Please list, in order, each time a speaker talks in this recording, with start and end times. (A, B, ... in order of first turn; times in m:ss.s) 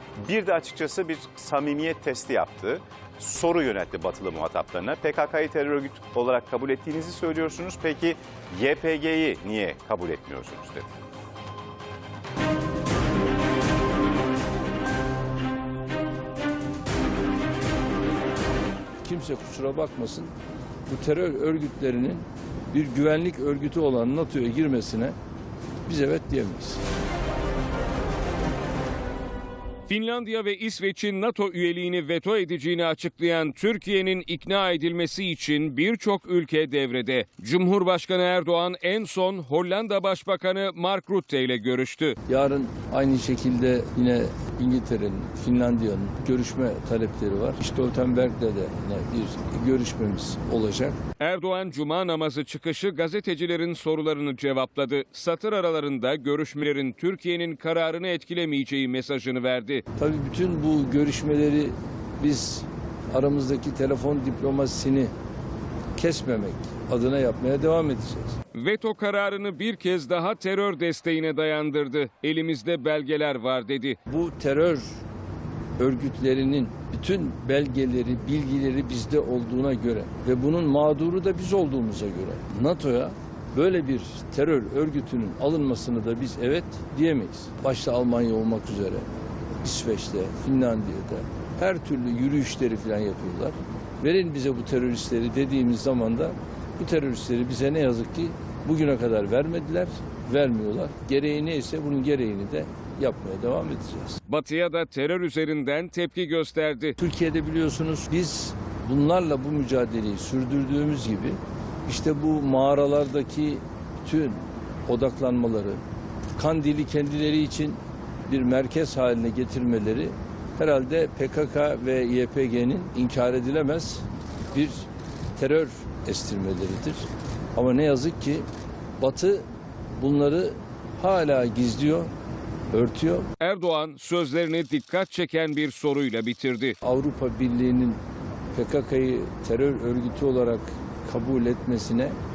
0:00.2-0:10.9 A
0:19.0-0:20.3 B
0:20.9-0:25.1 B
0:25.8-0:26.8 B
0:29.9-0:42.1 C
0:42.2-0:51.0 B
0:51.2-0:59.8 C
1:00.0-1:05.1 B
1:05.9-1:08.4 B
1:08.5-1:14.0 C
1:14.1-1:15.0 B
1:15.8-1:29.0 B
1:29.6-1:44.2 B
1:44.3-1:47.0 C
1:47.0-1:55.8 B
1:56.3-2:08.4 B
2:09.0-2:12.1 B
2:12.7-2:13.3 B
2:13.4-2:16.7 C
2:16.8-2:18.0 B
2:18.5-2:22.1 B